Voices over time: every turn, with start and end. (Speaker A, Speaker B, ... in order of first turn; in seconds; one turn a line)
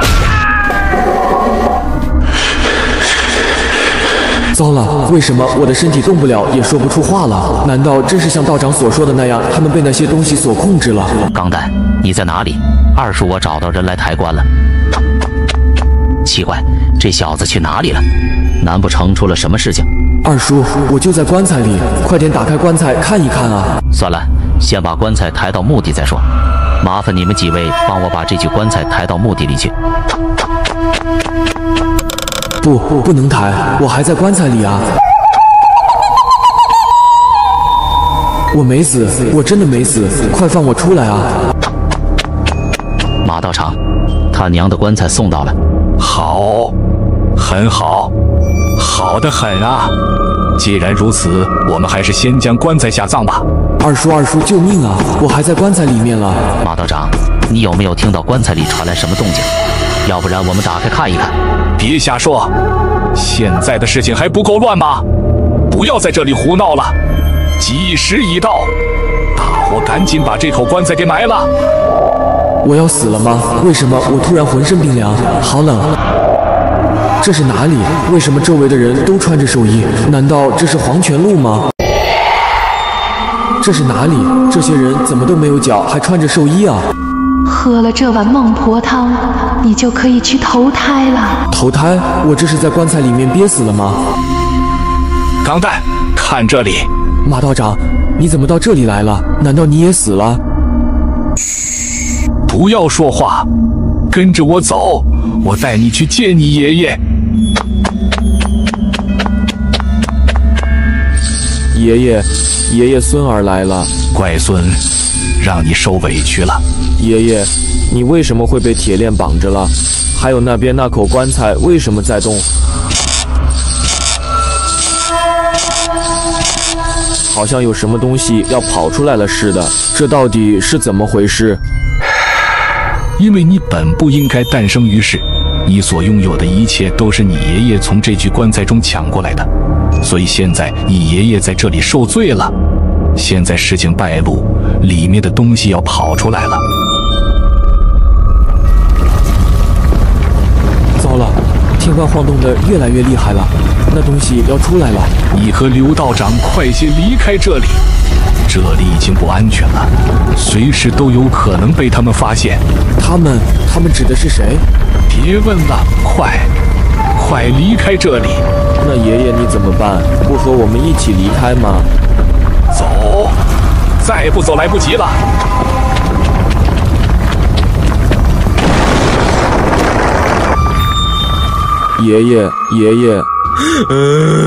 Speaker A: 4.5-11.2
Speaker B: 11.3-14.5
Speaker B: 16.2-18.1
Speaker B: 18.6-19.9
Speaker A: 20.2-23.8
Speaker B: 23.9-26.3
Speaker B: 26.8-29.7
Speaker A: 32.6-34.9
Speaker A: 38.5-41.4
Speaker B: 43.2-43.8
Speaker B: 44.3-45.5
Speaker C: 46.0-46.8
Speaker C: 47.4-48.1
Speaker C: 48.8-49.9
Speaker C: 50.6-53.5
Speaker A: 53.8-56.4
Speaker B: 56.6-59.5
Speaker B: 60.0-61.3
Speaker C: 61.8-62.5
Speaker C: 63.1-65.0
Speaker C: 65.7-67.0
Speaker C: 67.6-68.7
Speaker C: 69.4-71.5
Speaker A: 72.6-75.9
Speaker A: 77.2-81.7
Speaker A: 83.6-86.9
Speaker D: 87.5-91.4
Speaker A: 91.5-94.0
Speaker C: 95.4-96.9
Speaker A: 97.2-100.4
Speaker C: 102.5-103.5
Speaker C: 104.1-107.0
Speaker A: 111.7-113.9
Speaker C: 114.1-114.8
Speaker C: 115.4-116.6
Speaker A: 117.0-122.5
Speaker A: 127.3-131.6
Speaker C: 133.2-139.5
Speaker C: 140.0-142.5
Speaker C: 143.2-146.6
Speaker A: 151.0-155.1
Speaker C: 155.3-157.8
Speaker C: 158.5-162.6
Speaker A: 163.0-164.6
Speaker C: 165.1-166.5
Speaker C: 167.2-168.4
Speaker A: 168.8-171.9
Speaker C: 172.7-173.4
Speaker C: 174.0-175.2
Speaker A: 182.0-183.3